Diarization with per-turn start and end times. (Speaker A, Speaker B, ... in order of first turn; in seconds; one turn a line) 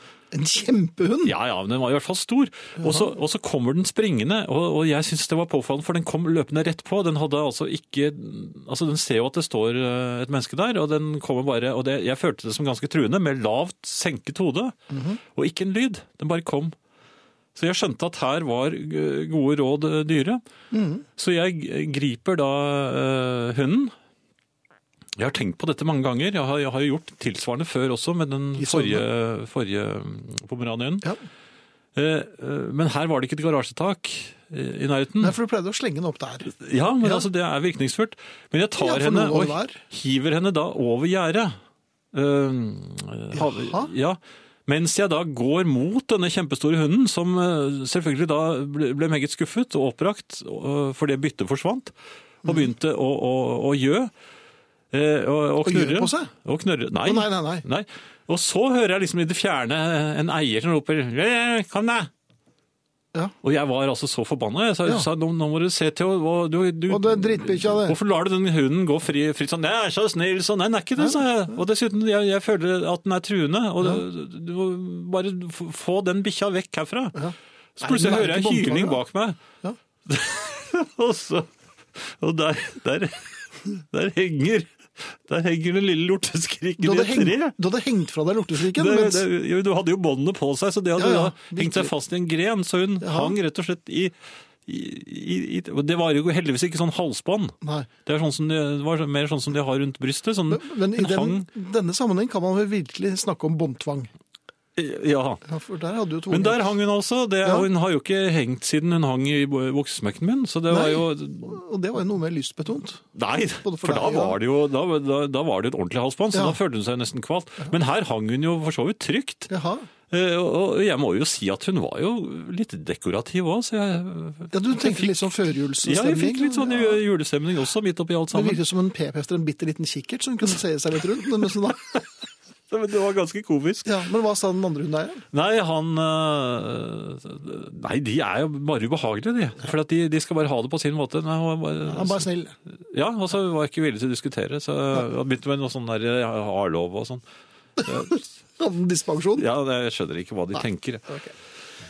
Speaker A: 0.3-1.3
Speaker B: 1.2-16.8
Speaker A: 14.9-15.2
Speaker B: 17.5-20.4
Speaker A: 20.7-21.0
Speaker B: 21.1-23.9
Speaker B: 25.1-31.1
Speaker A: 28.6-29.0
Speaker B: 31.9-35.4
Speaker A: 35.2-36.5
Speaker B: 36.5-41.6
Speaker A: 38.8-39.8
Speaker B: 42.1-51.9
Speaker A: 43.3-43.9
Speaker B: 52.4-54.1
Speaker B: 54.9-62.1
Speaker A: 55.6-56.3
Speaker A: 57.0-57.6
Speaker B: 63.4-77.3
Speaker A: 66.9-68.0
Speaker A: 77.1-79.0
Speaker B: 77.8-79.4
Speaker B: 80.0-87.5
Speaker A: 86.8-89.2
Speaker B: 88.6-94.1
Speaker A: 91.0-91.9
Speaker A: 93.0-93.3
Speaker B: 94.7-101.5
Speaker A: 97.6-97.9
Speaker A: 100.5-104.1
Speaker B: 104.8-105.4
Speaker A: 105.5-106.7
Speaker B: 106.3-111.6
Speaker A: 110.7-113.0
Speaker B: 113.1-119.5
Speaker A: 113.6-114.4
Speaker A: 116.3-116.6
Speaker A: 119.5-119.9
Speaker B: 120.1-125.3
Speaker A: 124.5-127.0
Speaker B: 125.8-128.6
Speaker A: 128.3-131.8
Speaker B: 132.7-133.9
Speaker A: 133.8-135.2
Speaker B: 135.3-142.2
Speaker A: 141.9-142.6
Speaker B: 142.9-147.2
Speaker B: 147.8-148.2
Speaker A: 148.6-149.4
Speaker B: 149.3-151.1